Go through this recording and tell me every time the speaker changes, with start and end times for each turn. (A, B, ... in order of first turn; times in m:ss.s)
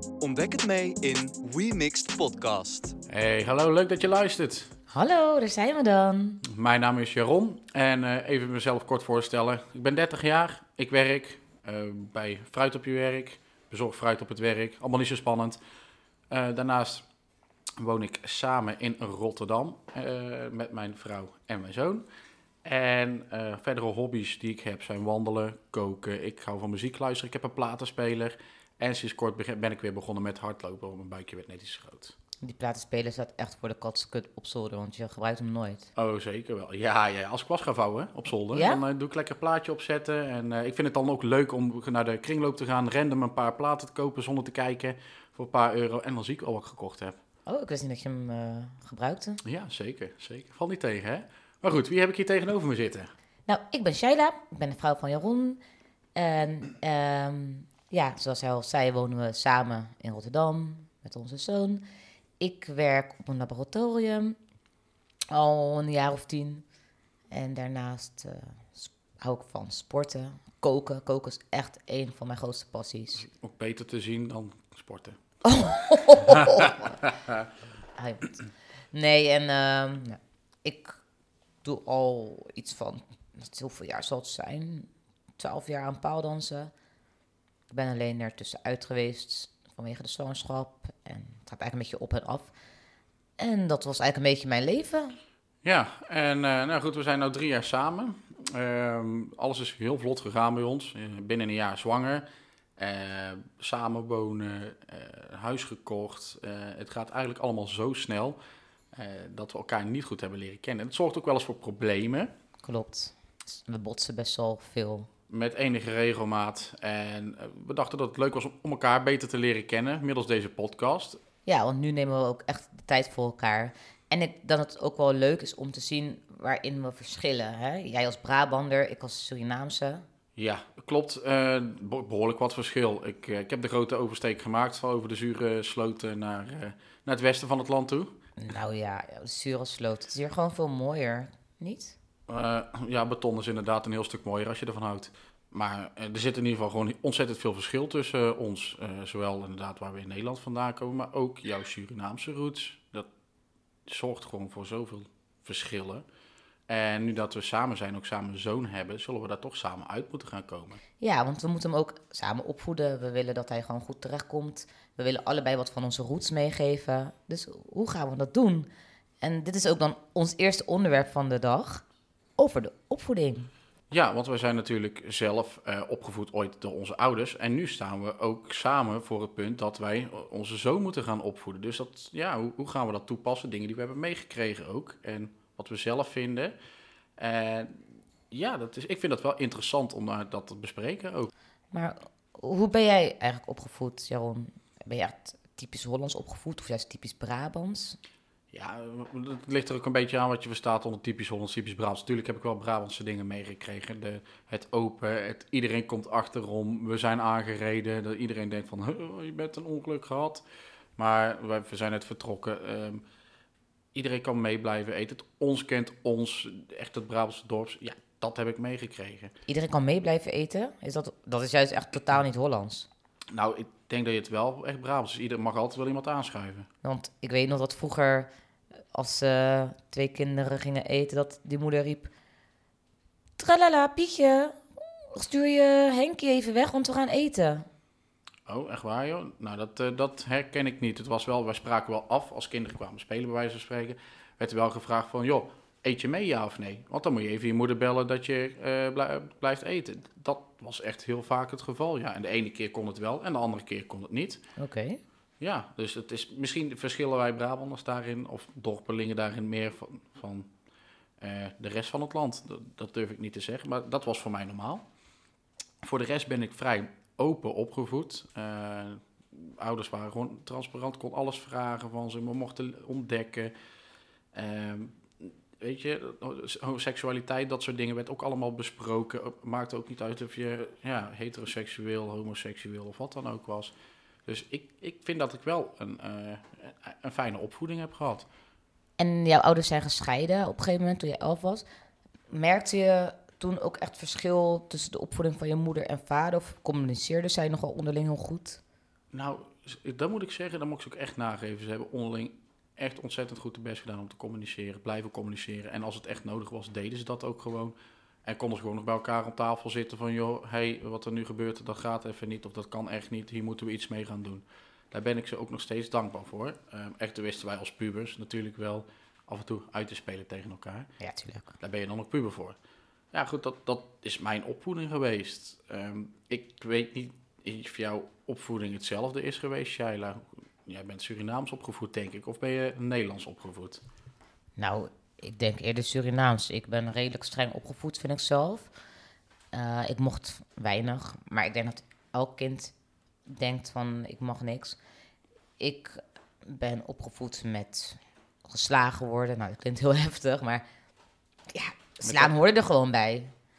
0:00.2-0:03.0 A
0:03.1-0:04.7 B
0:04.9-0:06.4 C
0:06.4-0:15.6 B
0:16.3-0:17.1 B
0:17.8-0:22.0 B
0:22.6-0:32.2 B
0:32.4-0:35.9 C
0:36.0-0:47.2 B
0:38.5-0:38.8 C
0:47.5-0:49.4 C
0:49.4-0:53.1 B
0:53.5-0:55.6 C
0:56.2-1:01.8 C
1:02.4-1:04.4 C
1:05.3-1:06.6 C
1:07.3-1:13.2 C
1:13.2-1:15.2 B
1:15.4-1:17.1 C
1:16.2-1:17.5 B
1:18.0-1:21.0 C
1:21.6-1:26.7 C
1:27.7-1:32.5 C
1:33.4-1:35.2 C
1:35.6-1:42.2 B
1:42.8-1:48.4 B
1:48.9-1:52.3 B
1:52.6-1:55.1 C
1:55.3-2:01.2 B
2:01.5-2:10.0 C
2:10.4-2:18.2 B
2:18.4-2:22.0 C
2:22.3-2:33.1 B
2:33.9-2:36.0 B
2:36.7-2:40.8 B
2:41.0-2:48.7 C
2:49.2-2:51.8 C
2:52.4-2:53.5 C
2:53.9-3:06.5 B
3:07.2-3:11.3 B
3:11.7-3:18.0 C
3:18.5-3:30.4 B
3:31.0-3:33.0 B
3:33.9-3:39.3 B
3:39.5-3:42.9 C
3:43.3-3:46.7 B
3:46.8-3:48.3 C
3:48.9-3:52.1 C
3:53.4-3:57.7 C
3:58.5-4:14.4 B
4:14.6-4:15.0 C
4:15.4-4:20.5 B
4:21.2-4:24.9 B
4:25.8-4:33.5 B
4:34.3-4:43.7 B
4:44.3-4:48.3 B
4:49.0-4:51.7 C
4:52.3-4:58.6 C
4:59.1-5:20.9 B
5:21.0-5:21.5 C
5:21.6-5:22.6 B
5:23.1-5:33.8 B
5:34.6-5:38.7 C
5:39.5-5:42.7 C
5:43.3-5:44.8 C
5:45.6-5:50.6 C
5:51.5-5:53.3 C
5:52.0-5:52.3 B